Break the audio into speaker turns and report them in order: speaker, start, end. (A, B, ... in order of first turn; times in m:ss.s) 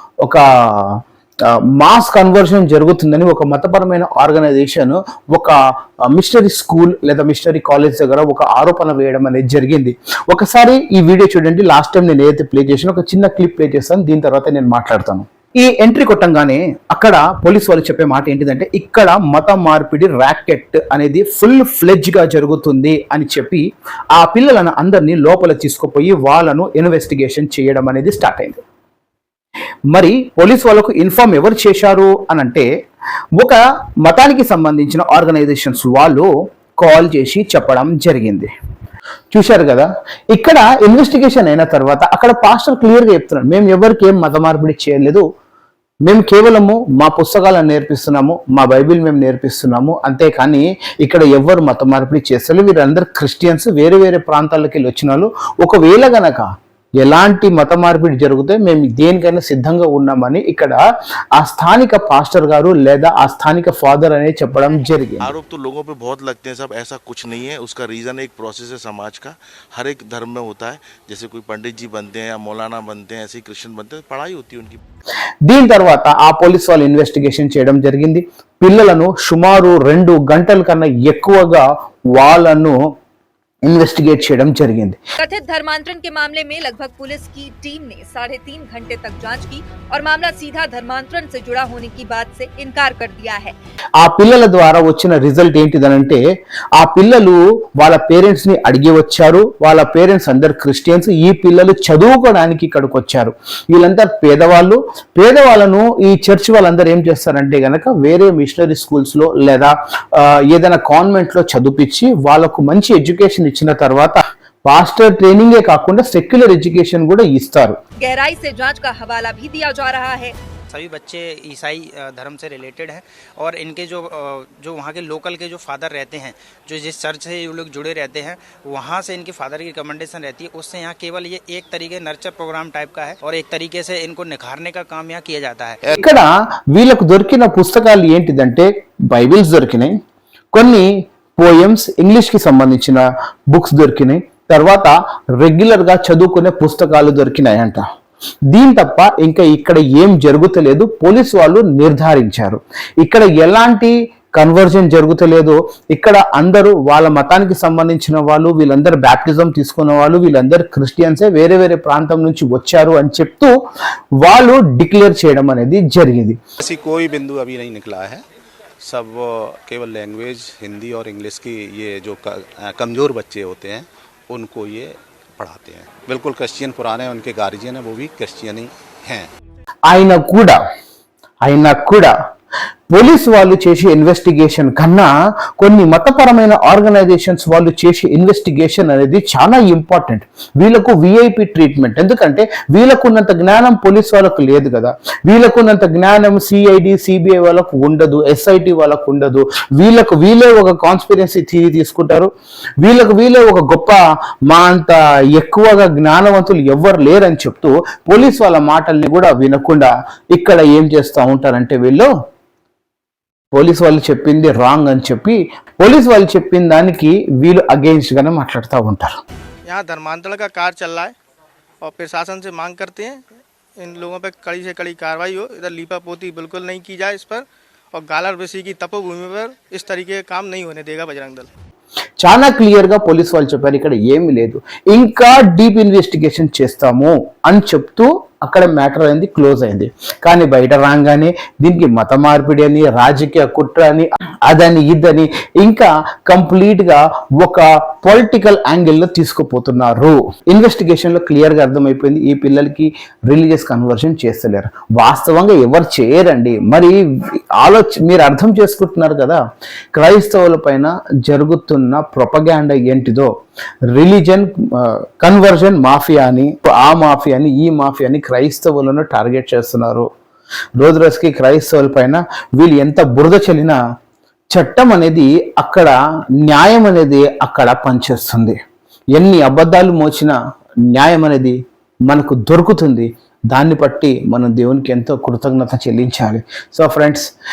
0:00.2-0:01.0 A
0:01.8-0:05.6 A
0:06.1-0:28.6 A
0:29.9-0:32.7 A
0:33.4-0:36.3 A
0:36.8-0:38.5 A
0:39.3-0:45.2 A
0:46.0-1:00.8 A
1:01.4-1:05.3 A
1:05.2-1:05.5 B
1:09.8-1:10.4 B
1:13.9-1:14.8 B
1:15.4-1:22.8 A
1:23.6-1:25.0 A
1:25.2-1:33.5 C
1:34.0-1:36.2 A
1:36.8-1:57.8 A
1:58.0-2:00.4 C
2:00.7-2:15.8 D
2:15.9-2:20.0 A
2:20.5-2:27.8 A
2:28.5-2:43.5 A
2:44.2-2:46.4 A
2:46.6-2:48.2 E
2:48.8-2:59.3 E
2:59.9-3:00.6 A
3:01.4-3:02.1 A
3:02.9-3:32.1 A
3:33.5-3:39.2 A
3:39.7-3:41.1 F
3:41.8-3:43.2 F
3:43.8-3:51.5 F
3:52.2-4:19.4 A
4:19.9-4:23.3 A
4:23.9-4:30.1 A
4:30.8-4:33.8 A
4:34.5-4:38.6 A
4:39.1-4:40.3 A
4:40.9-4:41.6 A
4:42.1-4:47.3 A